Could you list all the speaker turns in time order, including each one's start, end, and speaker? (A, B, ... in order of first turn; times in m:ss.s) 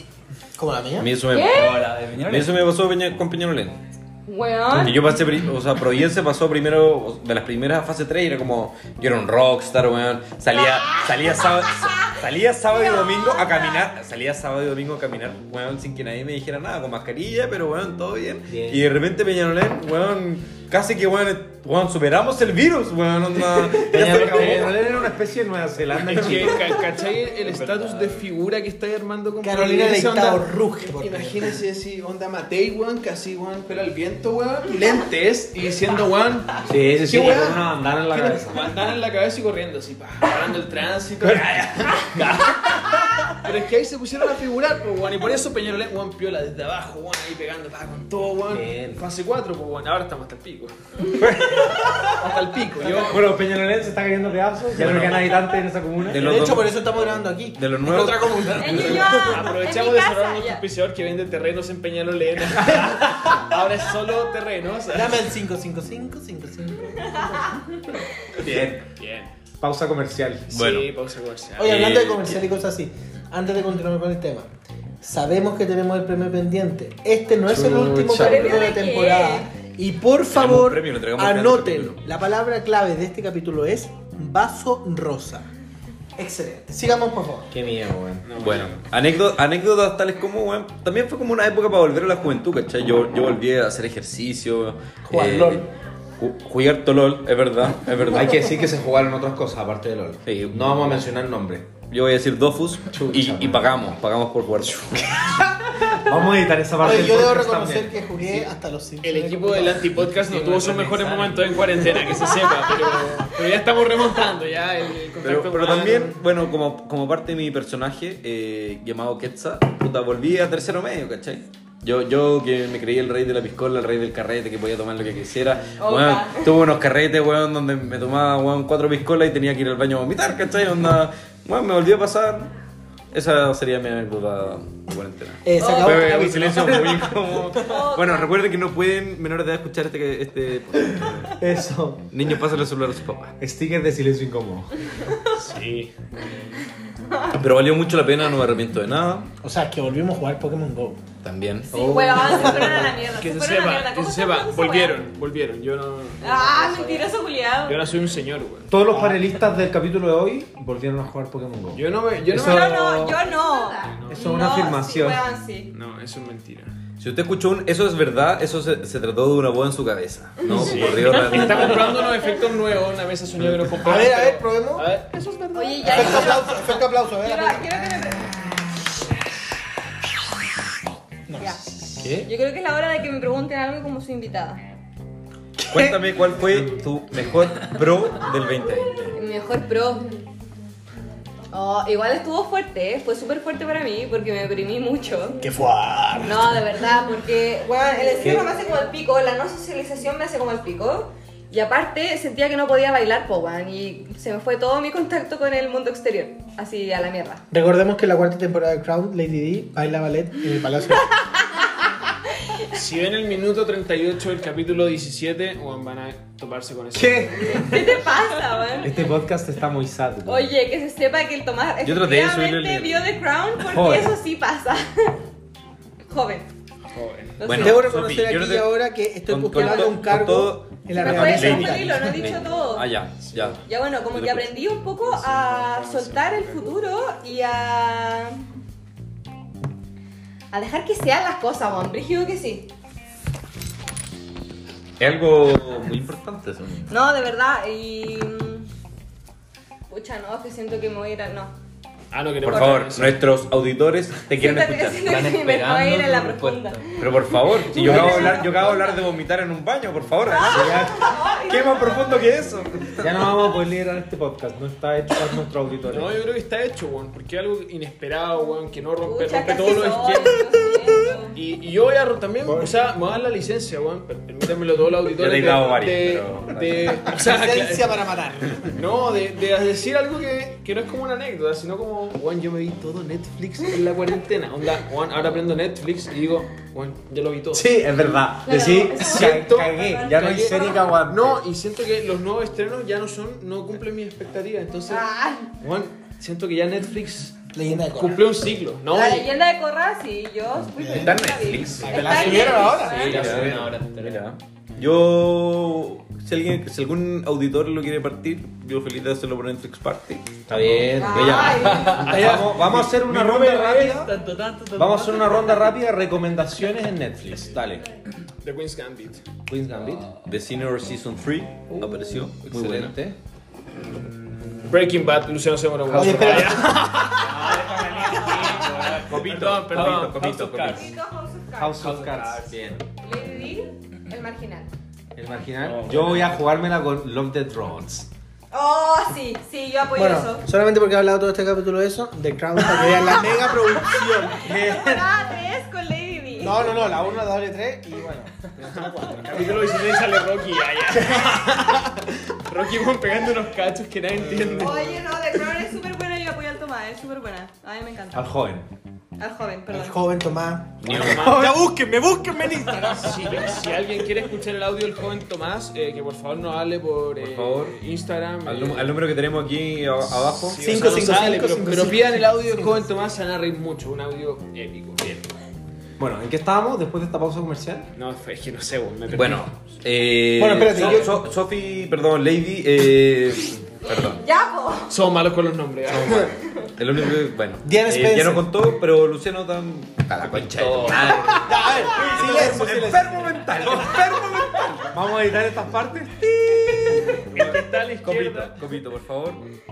0:00.6-0:01.1 A
0:01.0-0:01.7 B
0:01.3-0:01.8 C
0:01.4-0:02.5 D
0:02.2-0:03.8 B
0:04.3-0:05.0 C
0:04.7-0:24.8 B
0:12.7-0:13.9 C
0:18.5-0:18.9 E
0:23.8-0:26.8 E
0:24.1-0:24.5 F
0:26.1-0:36.7 F
0:29.4-0:31.5 A
0:36.6-0:38.6 E
0:37.1-0:38.4 A
0:38.3-0:50.7 F
0:41.2-0:42.0 E
0:48.5-0:49.0 E
0:51.2-0:52.0 E
0:51.7-0:53.3 F
0:52.8-0:56.4 E
0:54.8-0:55.3 B
0:54.8-0:55.1 F
0:56.0-0:56.9 B
0:56.1-0:59.3 A
0:57.6-0:58.9 B
0:58.4-1:05.3 F
0:58.6-1:00.6 C
1:04.9-1:07.8 A
1:08.4-1:08.9 E
1:09.0-1:09.3 F
1:09.6-1:10.5 E
1:10.5-1:11.9 F
1:10.5-1:10.9 B
1:11.6-1:14.5 A
1:11.7-1:12.4 B
1:15.0-1:25.5 A
1:17.5-1:18.3 E
1:18.1-1:19.5 C
1:18.2-1:18.5 F
1:20.3-1:22.0 B
1:26.2-1:27.5 A
1:27.5-1:28.2 E
1:28.2-1:28.8 F
1:28.4-1:35.7 B
1:35.1-1:35.6 A
1:36.2-1:38.5 B
1:38.1-1:41.7 E
1:40.2-1:41.1 B
1:41.9-1:45.4 B
1:42.9-1:43.8 E
1:45.9-1:48.0 E
1:46.8-1:49.9 A
1:49.0-1:56.2 F
1:50.5-1:51.5 D
1:55.2-2:12.5 B
2:05.8-2:06.5 C
2:13.1-2:21.4 B
2:15.4-2:17.7 A
2:15.6-2:16.1 C
2:15.8-2:17.1 E
2:17.6-2:18.3 C
2:21.3-2:22.1 E
2:22.1-2:23.4 B
2:23.4-2:24.7 E
2:25.3-2:26.3 F
2:27.3-2:29.3 B
2:29.4-2:31.0 A
2:31.2-2:31.7 B
2:31.7-2:35.0 C
2:31.7-2:32.7 E
2:32.2-2:32.8 A
2:32.8-2:37.1 F
2:36.2-2:37.8 C
2:37.6-2:38.8 F
2:38.7-2:43.1 E
2:41.7-2:44.2 F
2:42.3-2:45.7 C
2:44.1-2:45.2 E
2:45.7-2:46.7 F
2:47.0-2:52.1 B
2:50.5-2:56.6 F
2:53.8-2:54.9 A
2:55.5-2:58.5 C
2:55.8-2:58.1 A
3:01.3-3:01.6 A
3:01.4-3:04.6 C
3:02.0-3:02.3 E
3:05.7-3:09.2 B
3:05.7-3:06.0 E
3:09.1-3:10.1 C
3:11.5-3:15.4 C
3:15.4-3:16.6 A
3:16.2-3:27.4 C
3:18.2-3:18.5 E
3:27.5-3:31.2 A
3:32.7-3:38.0 F
3:36.9-3:37.7 E
3:37.6-3:38.9 C
3:38.8-3:40.5 E
3:40.2-3:45.2 C
3:41.8-3:43.1 B
3:43.6-3:44.2 E
3:46.1-3:46.5 C
3:46.9-3:47.5 F
3:47.4-3:47.9 C
3:47.4-3:54.8 B
3:47.5-3:52.4 A
3:49.5-3:49.9 C
3:50.9-3:52.9 C
3:53.2-3:53.6 F
3:53.6-3:58.4 C
3:55.0-3:56.8 F
4:00.5-4:02.7 C
4:05.0-4:06.9 B
4:06.9-4:08.7 C
4:09.9-4:11.5 C
4:12.1-4:13.2 F
4:12.4-4:15.1 B
4:14.3-4:19.0 C
4:15.0-4:17.0 D
4:17.0-4:23.3 B
4:17.8-4:18.4 E
4:20.2-4:22.2 C
4:20.4-4:21.0 E
4:23.0-4:26.1 E
4:25.9-4:30.4 F
4:29.0-4:31.4 C
4:31.3-4:38.1 F
4:32.4-4:32.7 E
4:35.1-4:37.1 B
4:37.1-4:38.8 A
4:38.7-4:47.7 F
4:47.5-4:51.4 E
4:48.4-4:50.9 C
4:48.9-4:55.1 F
4:54.9-4:55.5 C
4:55.6-4:59.3 F
4:57.5-4:58.4 A
4:58.9-5:03.2 C
5:00.8-5:01.1 A
5:00.9-5:02.0 B
5:01.8-5:03.3 A
5:01.8-5:03.6 F
5:02.8-5:04.2 D
5:02.9-5:10.4 B
5:03.1-5:03.7 E
5:10.5-5:14.1 E
5:10.9-5:12.0 C
5:11.0-5:12.7 B
5:11.6-5:12.3 D
5:12.0-5:12.5 F
5:12.9-5:15.6 D
5:14.7-5:17.8 E
5:18.4-5:19.2 F
5:19.5-5:20.1 E
5:20.2-5:23.0 B
5:22.4-5:23.2 E
5:23.9-5:24.9 D
5:24.6-5:30.8 F
5:25.9-5:27.0 A
5:27.2-5:29.2 D
5:28.9-5:30.9 B
5:30.7-5:32.0 C
5:31.6-5:32.8 E
5:31.8-5:32.6 D
5:32.5-5:32.8 B
5:33.0-5:34.7 C
5:35.1-5:38.1 E
5:35.6-5:36.3 F
5:38.5-5:40.4 C
5:40.0-5:44.6 A
5:44.1-5:46.8 C
5:44.4-5:45.0 E
5:46.4-5:49.7 A
5:48.7-5:51.9 F
5:51.2-5:51.4 A
5:52.4-5:55.0 F
5:54.6-5:58.3 C
5:58.1-5:58.7 E
5:59.2-6:00.0 C
5:59.7-6:03.4 A
6:00.8-6:01.4 B
6:00.8-6:01.6 F
6:01.0-6:01.6 E
6:02.9-6:09.0 F
6:07.2-6:07.8 B
6:08.4-6:10.8 B
6:10.2-6:15.2 F
6:10.6-6:12.7 A
6:16.0-6:17.9 E
6:17.9-6:19.5 F
6:19.1-6:24.2 B
6:20.4-6:21.2 A
6:24.1-6:25.0 C
6:24.9-6:26.4 F
6:25.9-6:35.0 B
6:27.6-6:28.5 A
6:30.3-6:31.5 D
6:31.3-6:33.6 A
6:31.8-6:37.1 E
6:36.4-6:39.4 B
6:37.2-6:38.6 F